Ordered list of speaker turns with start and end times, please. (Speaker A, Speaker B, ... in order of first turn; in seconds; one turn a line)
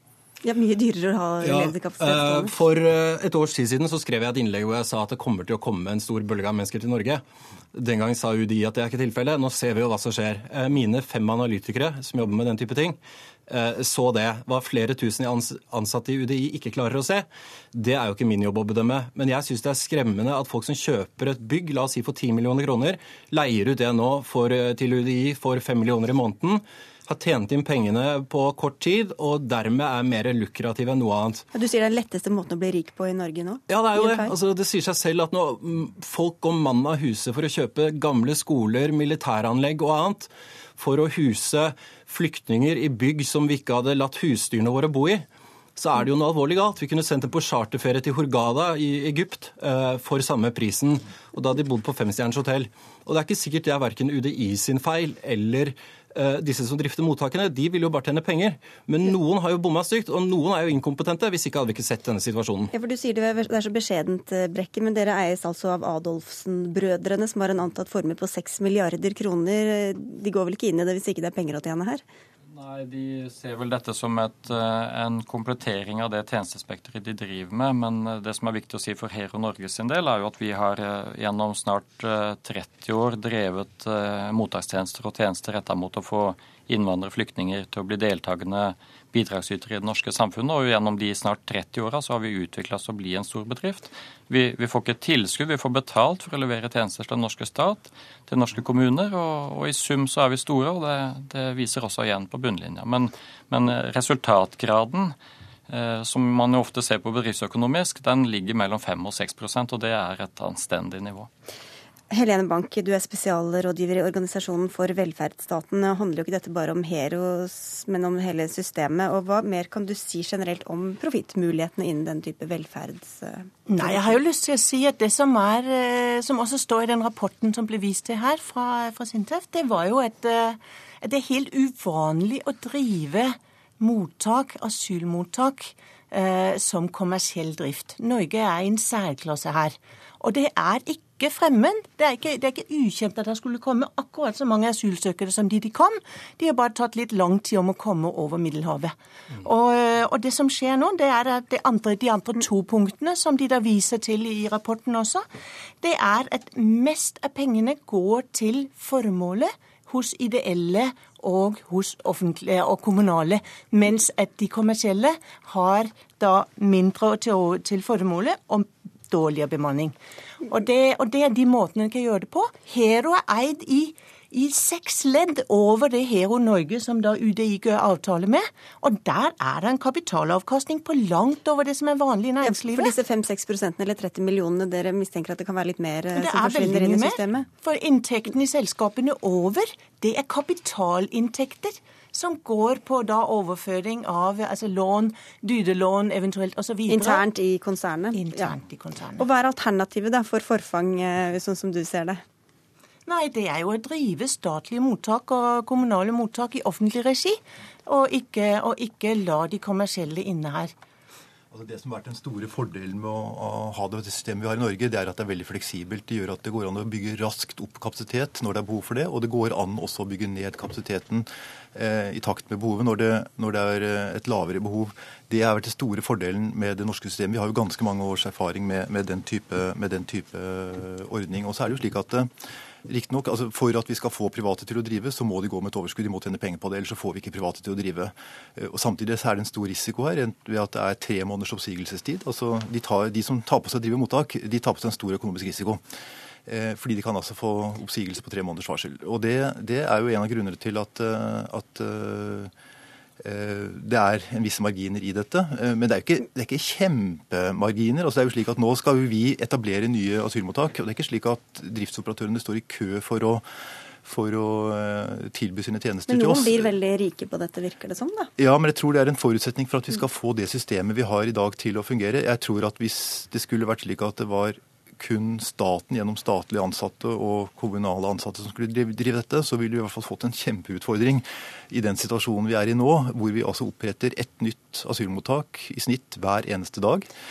Speaker A: 0.4-2.5
Speaker B: 1.4-31.4
Speaker A: 31.5-34.3
Speaker B: 33.7-62.7
Speaker A: 62.7-72.0
Speaker C: 72.5-105.2
Speaker C: 105.7-111.3
Speaker A: 112.1-124.2
Speaker D: 123.7-155.2
Speaker D: 155.8-182.9
Speaker A: 182.4-187.5
Speaker D: 186.2-197.2
Speaker A: 196.9-198.6
Speaker D: 198.1-199.2
Speaker A: 199.2-202.2
Speaker D: 203.1-210.7
Speaker E: 211.5-232.3
Speaker E: 232.9-245.8
Speaker E: 246.5-252.5
Speaker E: 253.2-263.4
Speaker E: 264.0-266.7
Speaker A: 266.1-268.3
Speaker E: 268.4-287.1